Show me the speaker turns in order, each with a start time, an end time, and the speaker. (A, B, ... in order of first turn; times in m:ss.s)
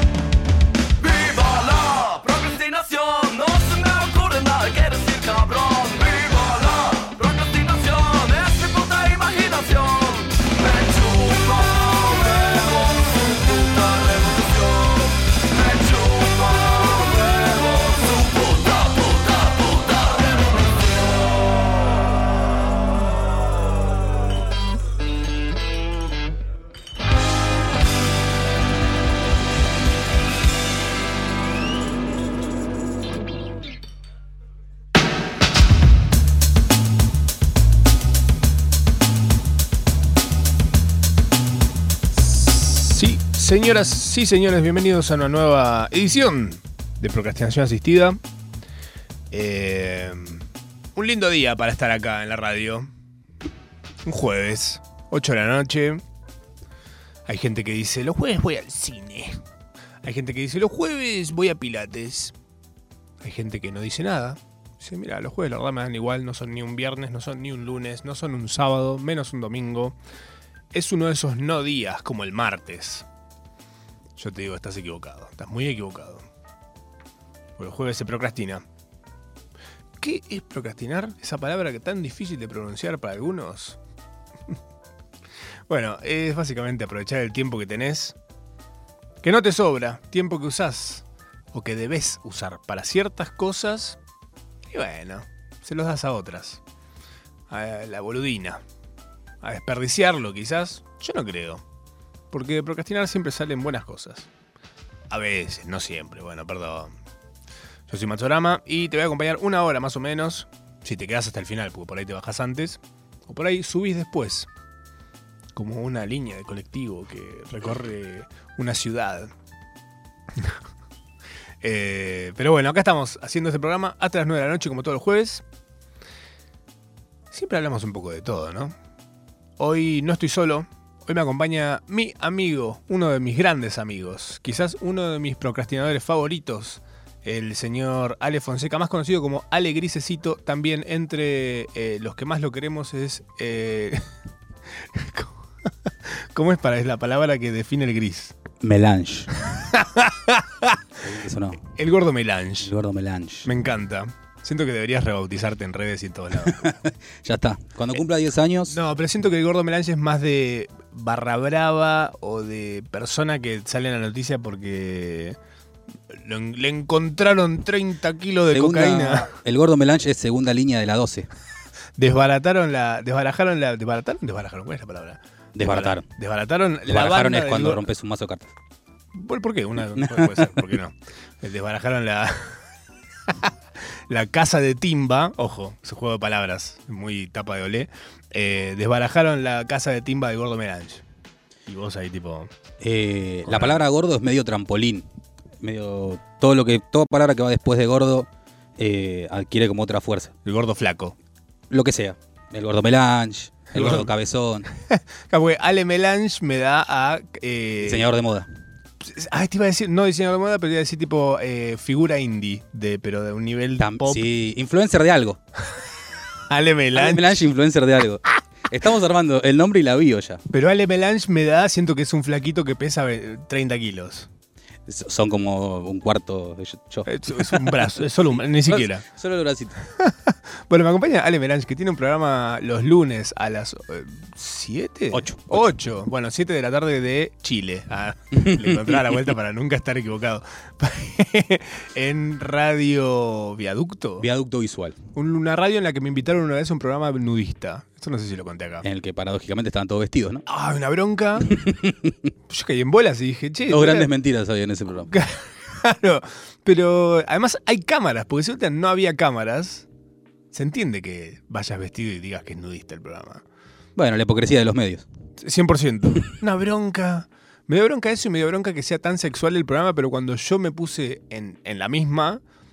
0:01.0-0:20.8 A
0:42.6-0:48.2 B
0:49.3-0:50.4 B
0:50.9-0:52.9 B
0:54.0-0:56.0 B
0:57.2-0:59.4 B
1:00.0-1:02.3 B
1:03.2-1:10.0 B
1:10.7-1:13.0 B
1:14.2-1:16.2 B
1:17.6-1:18.6 B
1:20.0-1:23.8 B
1:25.7-1:28.2 B
1:29.2-1:34.0 B
1:34.7-1:36.6 B
1:37.5-1:38.6 B
1:39.4-1:41.6 B
1:42.3-1:44.3 B
1:45.1-1:46.9 B
1:47.9-1:54.5 B
1:55.5-1:59.3 B
2:01.6-2:05.4 B
2:07.3-2:08.7 B
2:09.6-2:24.0 B
2:24.8-2:25.4 B
2:26.0-2:28.3 B
2:28.6-2:29.3 C
2:29.4-2:30.8 B
2:31.0-2:31.6 C
2:31.6-2:32.7 B
2:32.6-2:33.5 C
2:33.4-2:36.7 B
2:36.4-2:38.8 C
2:38.7-2:45.4 B
2:46.1-2:49.3 B
2:48.5-2:51.3 C
2:52.0-2:57.8 B
2:55.5-2:56.0 C
2:56.9-2:58.5 C
2:59.1-3:02.6 B
3:00.0-3:00.6 C
3:04.1-3:11.0 B
3:11.6-3:12.5 B
3:12.8-3:15.1 C
3:13.4-3:13.8 B
3:15.6-3:20.3 C
3:20.4-3:21.1 B
3:21.7-3:24.7 C
3:23.7-3:24.1 B
3:24.9-3:28.1 B
3:27.8-3:28.5 C
3:29.0-3:34.2 B
3:33.8-3:35.4 C
3:36.5-3:37.4 B
3:36.9-3:40.4 C
3:40.5-3:44.3 B
3:44.9-3:49.8 C
3:47.1-3:49.0 B
3:49.9-4:04.2 B
3:55.1-3:55.7 C
3:58.4-3:59.2 C
4:04.2-4:05.0 C
4:05.1-4:08.8 B
4:08.8-4:10.4 C
4:10.5-4:11.5 B
4:11.5-4:12.2 C
4:12.5-4:14.1 B
4:13.7-4:15.1 C
4:15.1-4:19.8 B
4:20.5-4:23.4 B
4:24.0-4:25.0 C
4:25.4-4:32.4 B